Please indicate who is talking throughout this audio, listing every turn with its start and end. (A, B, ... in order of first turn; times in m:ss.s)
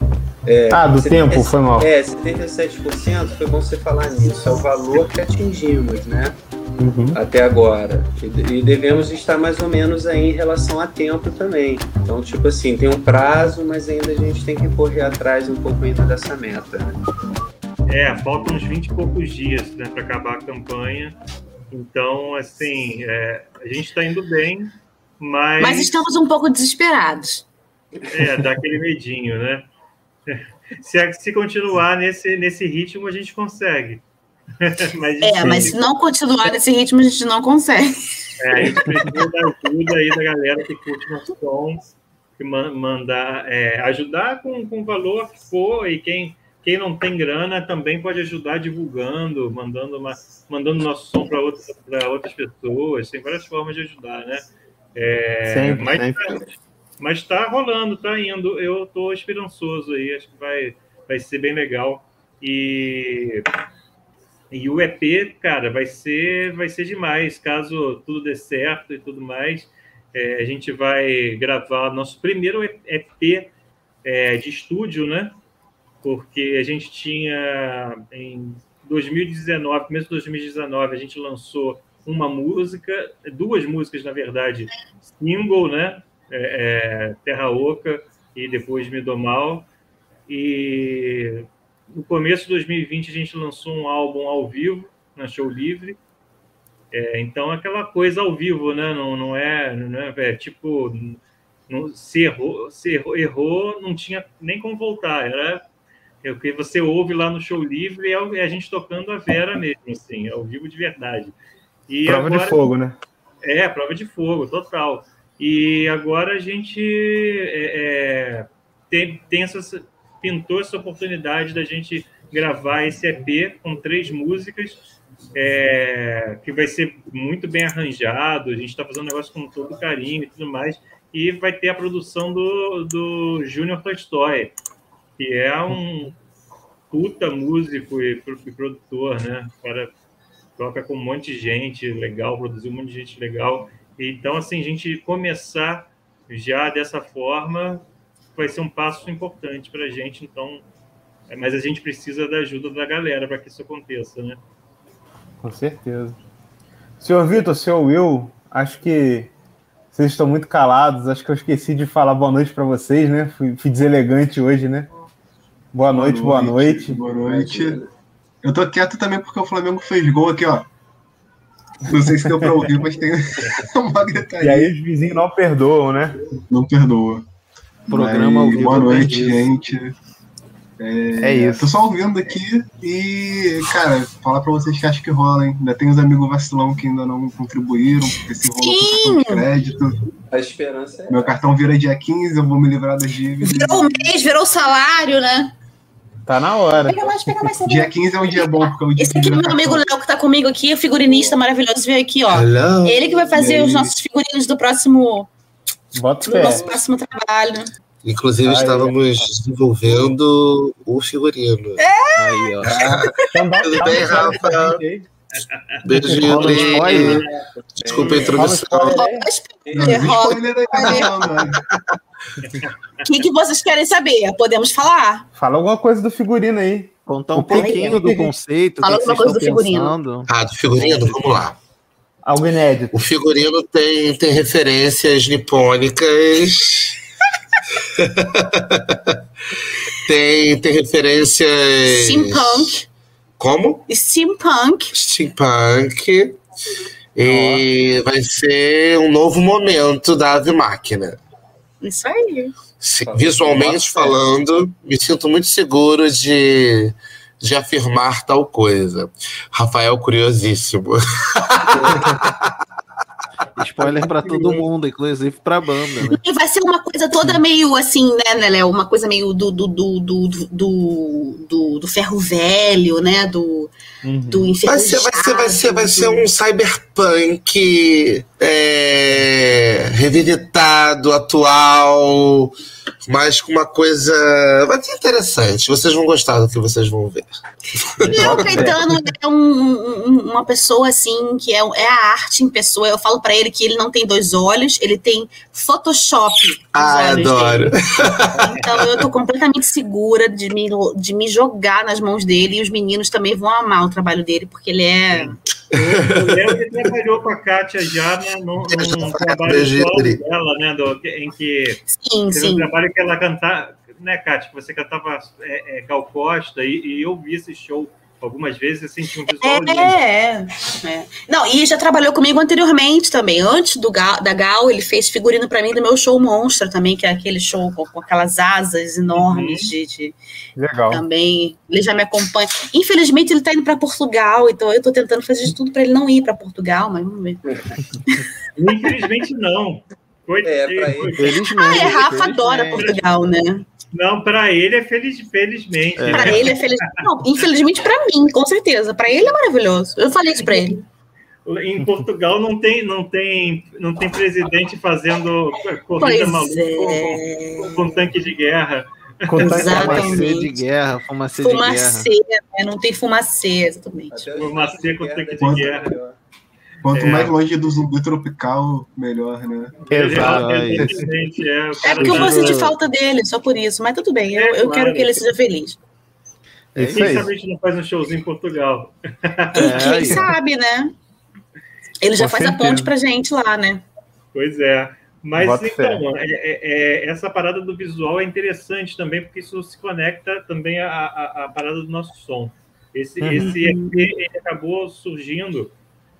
0:00.4-0:06.4 A
0:00.7-0:01.9 B
0:06.8-0:07.2 B
0:07.1-0:17.0 A
0:17.9-0:21.2 C
0:21.7-0:25.9 C
0:25.6-0:27.4 D
0:28.1-0:29.7 C
0:30.3-0:34.0 C
0:34.6-0:35.8 C
0:35.2-0:37.9 D
0:38.4-0:54.4 C
0:38.6-0:38.9 D
0:54.9-0:56.4 C
0:55.5-0:56.3 B
0:57.0-1:03.4 C
1:04.5-1:13.5 C
1:14.0-1:15.3 C
1:16.0-1:29.7 C
1:30.3-1:36.0 C
1:36.9-1:45.6 C
1:46.2-1:51.4 C
1:51.9-1:52.7 C
1:52.0-1:53.0 B
1:53.4-2:04.8 C
2:05.3-2:14.5 C
2:15.2-2:16.1 C
2:16.9-2:19.9 C
2:20.6-2:27.8 C
2:28.4-2:30.6 C
2:31.3-2:34.4 C
2:35.4-2:36.2 B
2:37.0-2:39.3 B
2:39.9-2:44.9 B
2:45.7-2:47.0 B
2:45.9-2:47.8 E
2:46.9-2:47.9 A
2:48.4-2:50.7 E
2:51.8-2:54.7 E
2:54.4-2:56.2 B
2:56.5-2:57.2 E
2:57.9-2:59.9 E
2:57.9-2:59.4 F
3:00.8-3:10.1 E
3:01.2-3:01.7 B
3:08.5-3:09.5 D
3:10.3-3:11.3 A
3:11.1-3:14.1 E
3:13.4-3:15.5 D
3:16.2-3:17.3 B
3:16.8-3:25.3 D
3:17.6-3:19.8 E
3:21.1-3:21.4 A
3:22.3-3:23.0 G
3:23.1-3:23.4 A
3:23.3-3:23.9 E
3:25.9-3:26.6 B
3:26.2-3:27.7 D
3:28.0-3:31.8 G
3:28.4-3:29.3 B
3:31.8-3:32.6 D
3:32.2-3:32.7 F
3:32.6-3:34.8 G
3:33.3-3:35.1 B
3:35.3-3:37.4 C
3:35.8-3:37.2 G
3:36.0-3:37.2 F
3:36.1-3:36.9 B
3:37.8-3:38.6 A
3:37.8-3:39.1 G
3:38.0-3:38.3 C
3:38.1-3:39.3 B
3:38.9-3:41.2 D
3:39.6-3:40.1 A
3:39.7-3:41.6 E
3:42.4-3:42.7 C
3:43.0-3:45.3 D
3:45.4-3:48.0 B
3:47.0-3:50.3 F
3:47.5-3:50.0 D
3:50.3-3:51.5 G
3:52.2-3:53.0 B
3:52.9-3:56.9 G
4:00.0-4:02.7 G
4:01.9-4:02.8 D
4:03.4-4:03.8 G
4:03.9-4:04.9 D
4:04.9-4:06.4 G
4:07.2-4:11.2 G
4:07.3-4:07.5 B
4:11.8-4:12.5 D
4:12.8-4:22.3 G
4:13.0-4:14.2 A
4:21.7-4:22.0 A
4:23.6-4:26.2 F
4:26.0-4:33.7 D
4:34.0-4:34.5 C
4:34.3-4:36.2 D
4:34.6-4:42.5 G
4:43.0-4:47.3 G
4:47.8-4:48.7 G
4:48.1-4:57.7 D
4:48.1-4:48.8 F
4:48.2-4:48.8 B
4:56.7-4:58.9 G
4:58.4-5:05.4 D
5:05.1-5:11.8 C
5:08.7-5:10.2 G
5:11.9-5:12.7 D
5:12.3-5:19.9 C
5:19.3-5:30.2 D
5:29.1-5:29.7 C
5:30.6-5:31.0 B
5:30.9-5:37.4 D
5:38.6-5:41.5 C
5:40.4-5:41.4 A
5:41.2-5:42.9 F
5:41.5-5:43.7 D
5:43.9-5:46.6 C
5:46.0-5:46.5 F
5:46.1-5:50.8 D
5:50.4-5:50.8 C
5:51.4-6:00.1 C
5:56.0-5:57.9 D
5:59.4-6:00.2 B
5:59.4-6:00.6 D
5:59.4-6:02.1 F
6:01.4-6:04.2 D
6:04.1-6:06.2 A
6:04.3-6:05.9 C
6:05.4-6:05.7 E
6:06.8-6:09.8 E
6:06.9-6:07.3 C
6:09.8-6:12.6 C
6:09.9-6:11.1 B
6:10.0-6:11.1 F
6:11.8-6:15.8 D
6:12.0-6:12.7 F
6:14.3-6:15.2 C
6:16.8-6:17.2 F
6:16.8-6:17.3 B
6:16.9-6:20.2 C
6:19.5-6:20.9 D
6:19.6-6:20.3 F
6:22.0-6:23.8 D
6:22.2-6:22.9 B
6:24.3-6:35.7 C
6:25.4-6:26.0 B
6:33.2-6:33.6 B
6:33.4-6:34.0 D